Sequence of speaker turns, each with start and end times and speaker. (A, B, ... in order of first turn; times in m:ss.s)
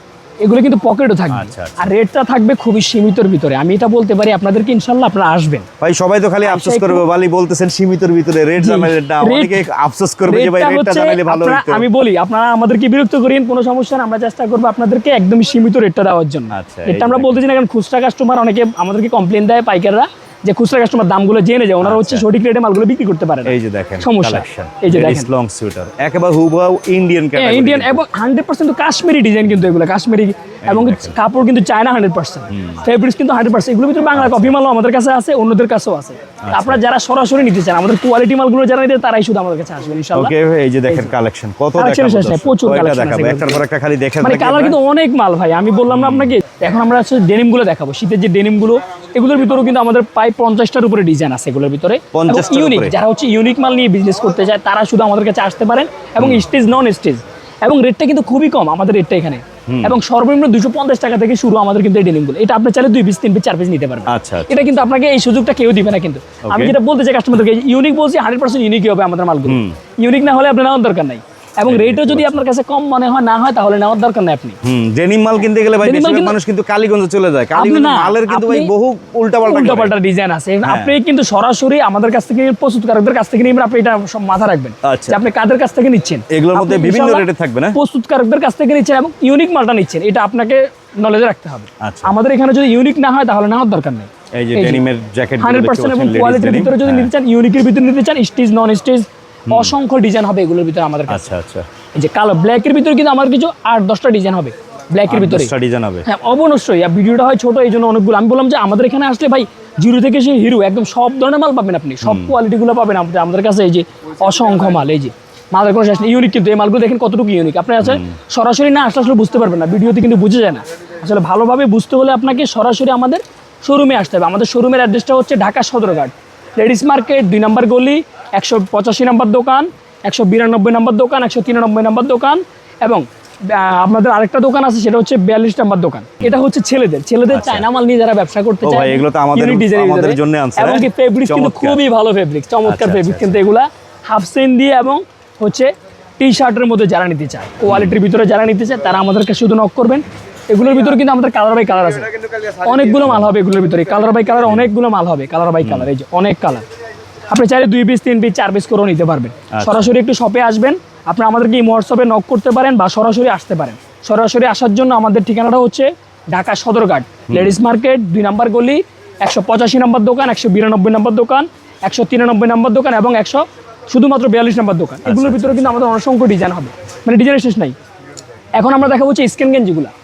0:00.4-0:05.6 A
0:01.3-0:01.9 B
0:05.8-0:11.9 B
0:06.4-0:07.0 A
0:08.6-0:09.6 A
0:10.3-0:25.3 A
0:16.5-0:17.4 B
0:21.8-0:22.2 B
0:23.4-0:28.0 B
0:27.4-0:40.3 A
0:30.6-0:31.2 B
0:32.5-0:32.8 B
0:34.1-0:34.5 B
0:36.4-0:36.8 B
0:40.1-0:44.8 B
0:41.8-0:43.6 A
0:44.2-1:14.6 A
0:45.9-0:46.4 B
0:52.1-0:53.0 B
0:56.2-0:56.5 B
0:59.7-1:00.0 B
1:04.1-1:04.7 B
1:06.5-1:06.8 B
1:09.4-1:09.8 B
1:11.6-1:12.4 B
1:14.6-1:20.0 B
1:15.8-1:16.3 A
1:17.5-1:18.7 A
1:19.4-1:34.8 A
1:20.6-1:21.0 B
1:24.8-1:25.2 B
1:26.3-1:27.8 B
1:31.8-1:32.1 B
1:34.3-1:37.1 B
1:35.4-1:41.2 A
1:39.5-1:39.7 B
1:41.1-1:41.7 B
1:41.9-1:45.5 A
1:45.1-1:46.0 B
1:46.0-2:36.6 A
1:52.0-1:52.3 B
1:57.8-1:58.1 B
2:17.3-2:17.6 B
2:18.6-2:21.8 B
2:22.6-2:23.4 B
2:27.7-2:28.0 B
2:35.6-2:35.9 B
2:37.3-2:57.7 A
2:39.5-2:39.9 B
2:47.3-2:47.6 B
2:55.0-2:55.9 B
2:58.5-2:59.9 A